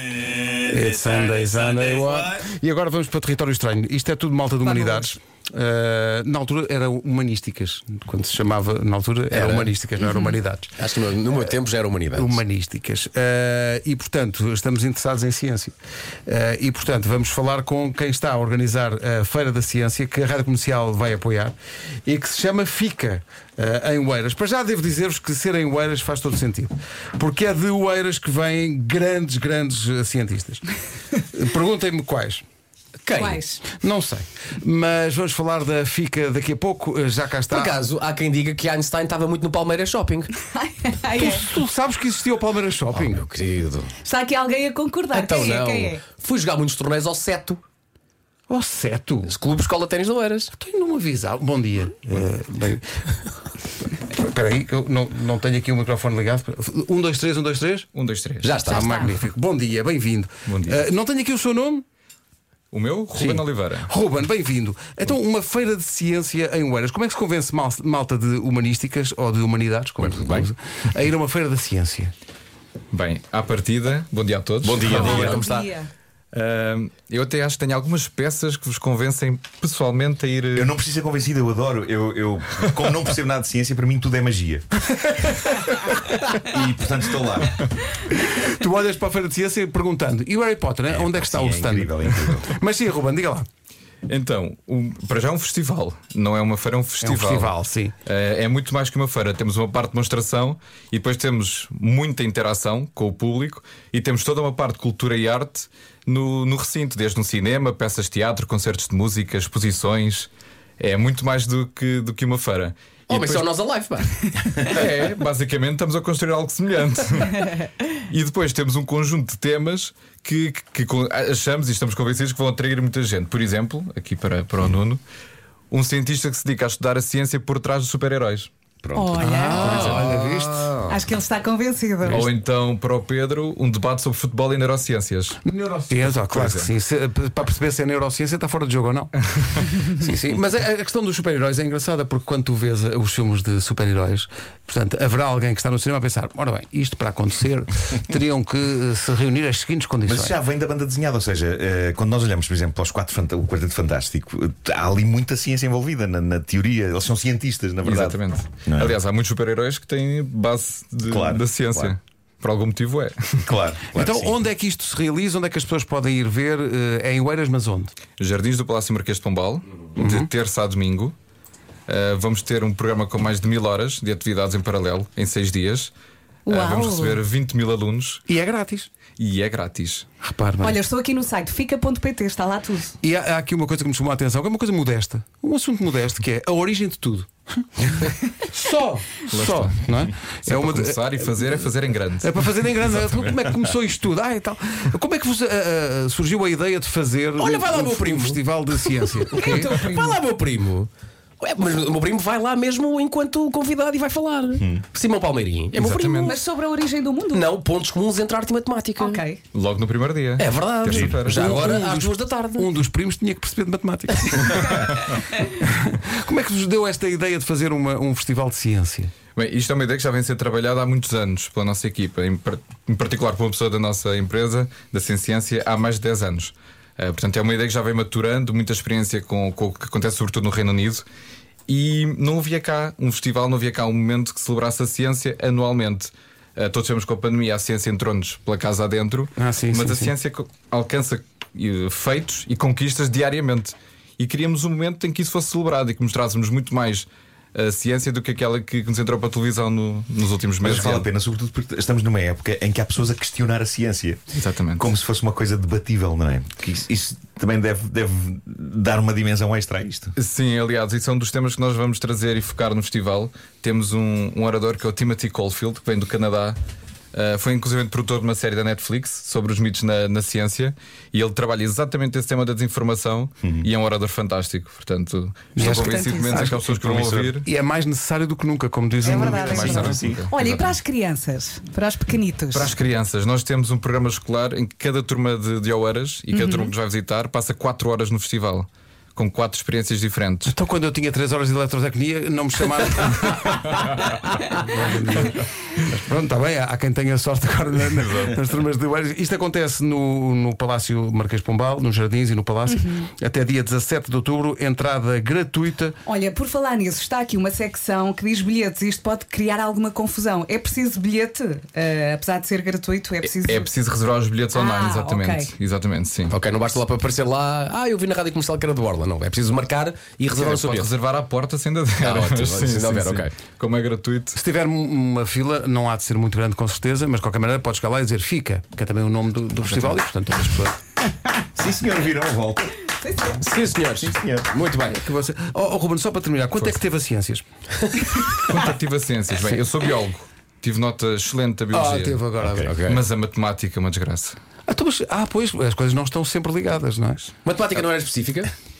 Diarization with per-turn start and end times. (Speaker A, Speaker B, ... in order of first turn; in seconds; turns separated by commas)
Speaker A: 0.5-10.7, Speaker B: 4.6-5.1, Speaker C: 9.3-9.7, Speaker B: 10.0-10.3, Speaker C: 10.8-12.4, Speaker A: 12.2-15.8, Speaker A: 16.3-21.6, Speaker A: 22.1-30.7, Speaker A: 31.2-32.4, Speaker C: 33.0-33.4, Speaker B: 33.1-33.6, Speaker A: 33.7-37.8, Speaker C: 37.5-40.3, Speaker B: 40.4-41.5, Speaker A: 41.1-43.2, Speaker C: 42.9-43.9, Speaker B: 44.0-46.0, Speaker C: 45.1-47.6, Speaker A: 48.5-49.3, Speaker C: 49.2-50.5, Speaker A: 50.5-52.8, Speaker A: 54.0-57.9, Speaker D: 57.9-58.6, Speaker C: 58.4-58.9, Speaker B: 58.6-59.2, Speaker A: 58.7-61.8, Speaker D: 60.5-60.8, Speaker D: 62.7-63.9, Speaker A: 63.1-72.1, Speaker C: 70.0-70.5, Speaker D: 72.9-75.4, Speaker C: 74.6-75.8, Speaker B: 74.9-75.9, Speaker D: 76.3-80.7, Speaker E: 80.5-84.7, Speaker A: 85.0-86.2, Speaker E: 86.3-87.7, Speaker A: 88.2-93.5, Speaker E: 90.9-92.5, Speaker D: 94.1-97.5, Speaker A: 97.0-98.0, Speaker D: 98.1-110.3, Speaker D: 110.8-113.5, Speaker C: 113.1-114.6, Speaker D: 114.6-125.0, Speaker D: 125.7-128.5, Speaker E: 128.8-130.0, Speaker B: 128.9-129.7, Speaker A: 129.2-130.8, Speaker C: 129.6-130.1, Speaker D: 129.7-130.0, Speaker B: 130.9-132.3, Speaker D: 132.1-135.4, Speaker A: 135.4-150.4, Speaker D: 136.0-136.7, Speaker E: 150.1-159.0, Speaker D: 157.8-163.5, Speaker E: 161.1-162.0, Speaker E: 163.4-164.4, Speaker A: 163.9-167.9, Speaker D: 168.2-171.2, Speaker A: 170.0-170.3, Speaker D: 171.9-175.9, Speaker D: 176.5-178.2, Speaker B: 176.5-177.2, Speaker A: 178.3-178.9, Speaker D: 179.2-180.1, Speaker A: 180.2-180.8, Speaker B: 180.6-182.9, Speaker A: 183.0-191.7, Speaker D: 189.3-193.5, Speaker A: 192.2-199.8, Speaker C: 197.4-200.9, Speaker B: 199.3-200.2, Speaker C: 201.4-206.4, Speaker E: 204.6-204.8, Speaker A: 205.8-206.1, Speaker D: 205.8-206.4, Speaker B: 206.1-207.5, Speaker C: 207.3-209.2, Speaker B: 209.0-209.4, Speaker D: 209.5-211.7, Speaker C: 210.4-212.7, Speaker E: 210.9-211.2, Speaker A: 211.1-219.1, Speaker D: 219.4-231.1, Speaker D: 231.7-251.1, Speaker A: 239.4-240.1, Speaker E: 250.6-260.1, Speaker D: 254.3-254.9, Speaker D: 260.2-266.6, Speaker D: 267.1-277.5, Speaker E: 273.4-273.7, Speaker A: 275.6-276.7, Speaker B: 275.6-276.5, Speaker E: 276.5-277.4, Speaker A: 277.4-280.0, Speaker B: 279.0-282.7, Speaker E: 279.1-280.3, Speaker D: 279.5-280.8, Speaker D: 282.5-290.5, Speaker B: 286.3-286.7, Speaker A: 290.5-306.0, Speaker B: 302.7-303.1, Speaker B: 306.1-313.7, Speaker D: 313.3-316.4, Speaker B: 314.5-315.5, Speaker C: 316.3-320.9, Speaker D: 320.3-324.4, Speaker C: 322.0-323.4, Speaker A: 324.3-330.8, Speaker E: 331.6-332.8, Speaker B: 333.0-333.4, Speaker C: 333.4-335.0, Speaker E: 334.0-334.6, Speaker A: 334.8-337.4, Speaker D: 338.4-342.2, Speaker A: 339.4-339.7, Speaker A: 341.7-342.7, Speaker E: 342.4-342.8, Speaker C: 342.7-343.0, Speaker D: 342.9-344.4, Speaker A: 344.7-347.3, Speaker C: 347.4-348.5